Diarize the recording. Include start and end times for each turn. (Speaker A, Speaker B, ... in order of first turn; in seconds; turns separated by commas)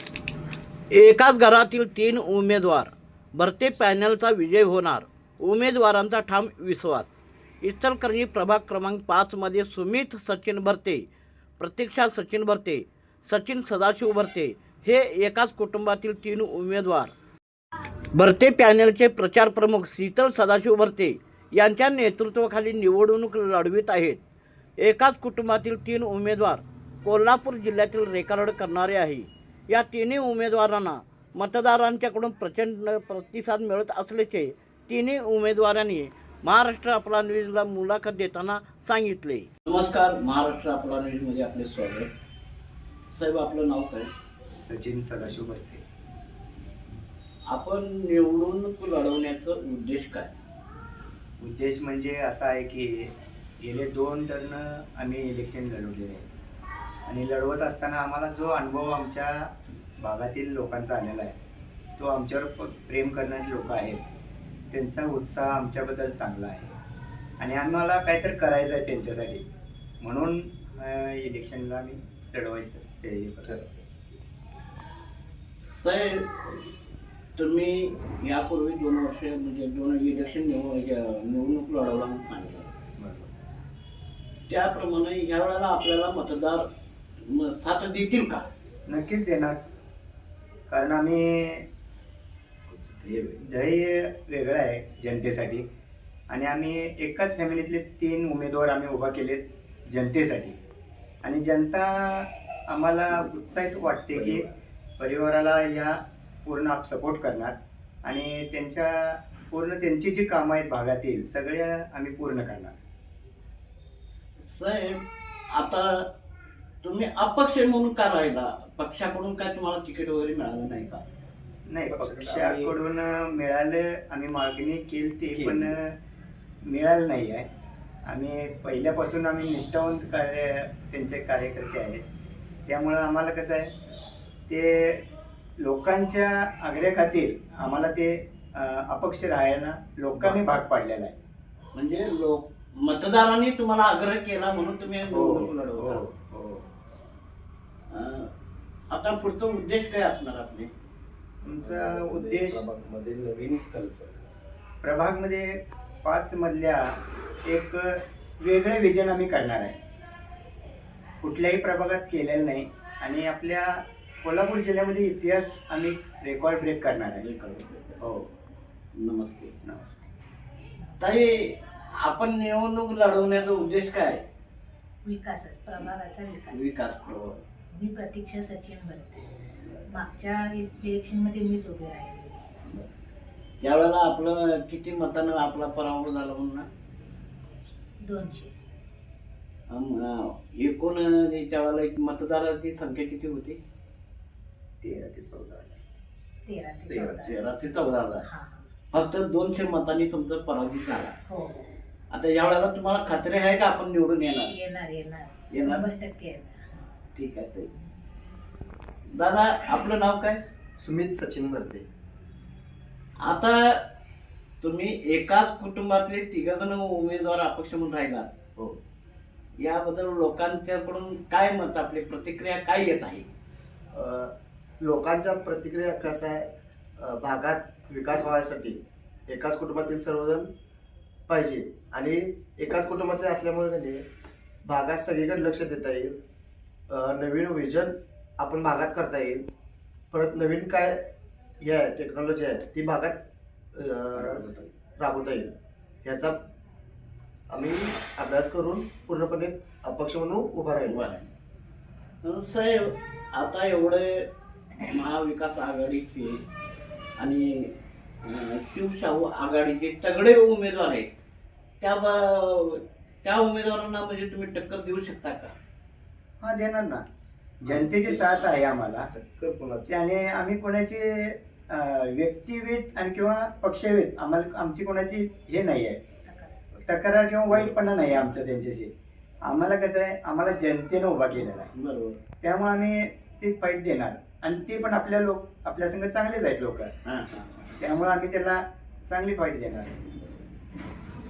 Speaker A: 0.9-11.1, Speaker A: 11.6-17.1, Speaker A: 18.1-24.2, Speaker A: 24.8-42.1, Speaker A: 43.1-44.1, Speaker B: 44.6-45.8, Speaker A: 47.5-50.3, Speaker B: 51.4-53.1, Speaker B: 53.6-56.2, Speaker B: 57.1-59.5, Speaker B: 60.0-61.3, Speaker B: 62.0-64.0, Speaker B: 64.7-66.7, Speaker B: 67.4-69.4, Speaker B: 70.0-73.6, Speaker C: 73.5-73.8, Speaker A: 75.6-76.5, Speaker A: 77.4-82.7, Speaker C: 83.0-83.3, Speaker A: 84.5-86.6, Speaker A: 87.2-88.4, Speaker B: 88.9-89.6, Speaker B: 90.7-91.6, Speaker C: 92.7-93.4, Speaker B: 93.4-95.6, Speaker B: 96.3-100.6, Speaker B: 101.2-104.5, Speaker C: 104.1-104.4, Speaker B: 105.0-112.8, Speaker A: 114.5-115.0, Speaker A: 115.5-116.0, Speaker A: 116.8-121.0, Speaker B: 121.7-125.9, Speaker C: 121.8-122.7, Speaker C: 125.3-125.7, Speaker B: 126.7-127.5, Speaker B: 128.1-132.0, Speaker B: 132.7-133.7, Speaker B: 134.5-135.0, Speaker B: 135.6-141.2, Speaker A: 141.7-146.0, Speaker C: 145.0-145.5, Speaker B: 145.9-146.6, Speaker A: 147.9-148.3, Speaker A: 148.9-150.7, Speaker B: 151.4-152.6, Speaker C: 151.6-154.2, Speaker B: 154.8-155.5, Speaker B: 156.0-159.8, Speaker B: 161.2-167.2, Speaker A: 167.2-168.0, Speaker B: 168.0-168.3, Speaker A: 168.9-169.5, Speaker B: 169.6-170.0, Speaker D: 170.8-171.2, Speaker A: 171.0-174.2, Speaker D: 175.0-176.9, Speaker A: 176.5-177.4, Speaker D: 177.7-179.3, Speaker D: 179.9-182.7, Speaker A: 183.6-186.7, Speaker D: 188.0-188.5, Speaker A: 189.7-193.6, Speaker B: 194.8-195.8, Speaker D: 196.4-197.5, Speaker A: 196.9-198.2, Speaker D: 198.2-198.6, Speaker A: 198.9-201.1, Speaker D: 201.3-201.7, Speaker A: 202.1-204.5, Speaker D: 204.4-206.6, Speaker A: 205.5-205.9, Speaker A: 207.1-207.7, Speaker A: 209.1-210.4, Speaker C: 210.8-211.8, Speaker A: 213.2-213.8, Speaker A: 214.6-218.3, Speaker A: 219.6-223.3, Speaker C: 223.9-226.4, Speaker C: 227.0-230.5, Speaker C: 231.3-234.0, Speaker C: 234.6-236.2, Speaker C: 236.9-239.4, Speaker C: 240.1-241.0, Speaker C: 241.6-243.2, Speaker C: 243.7-246.4, Speaker C: 247.5-251.0, Speaker A: 250.8-251.3, Speaker A: 252.2-254.3, Speaker A: 254.8-256.4, Speaker A: 257.2-257.7, Speaker A: 258.2-261.1, Speaker A: 261.8-265.5, Speaker B: 266.4-267.0, Speaker B: 267.6-269.1, Speaker C: 267.7-268.2, Speaker C: 269.1-269.9, Speaker B: 269.9-276.0, Speaker D: 276.2-276.6, Speaker B: 276.8-278.9, Speaker B: 279.4-281.7, Speaker A: 281.7-282.2, Speaker B: 282.4-286.9, Speaker A: 287.1-287.5, Speaker B: 287.8-290.1